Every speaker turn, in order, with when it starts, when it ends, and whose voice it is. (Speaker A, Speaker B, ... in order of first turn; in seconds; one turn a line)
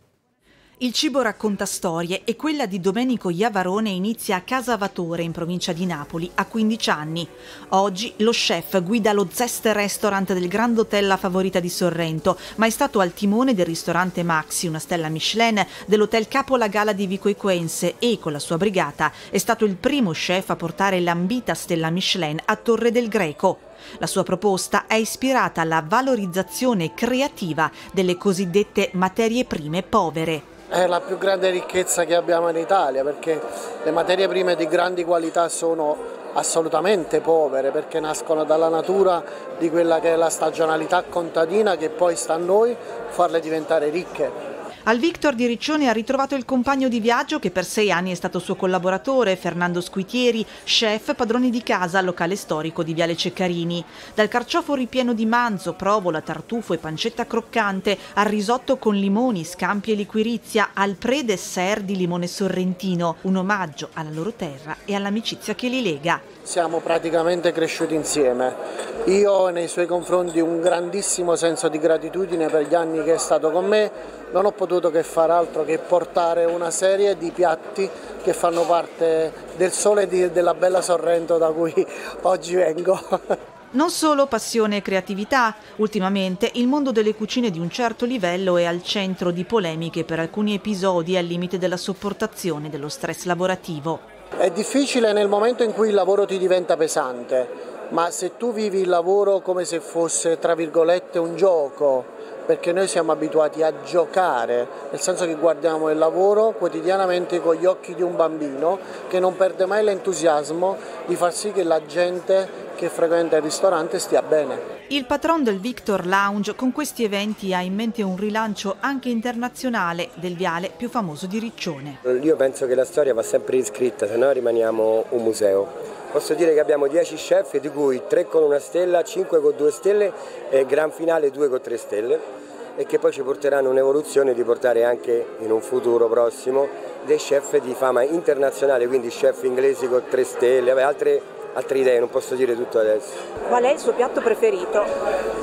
Speaker A: 0.8-30.5
Speaker B: 30.7-44.4
Speaker A: 44.9-66.3
Speaker B: 66.5-83.3
Speaker A: 83.7-94.0
Speaker B: 94.4-114.6
Speaker A: 114.9-122.0
Speaker C: 122.0-132.2
Speaker C: 132.8-143.2
Speaker A: 143.5-144.9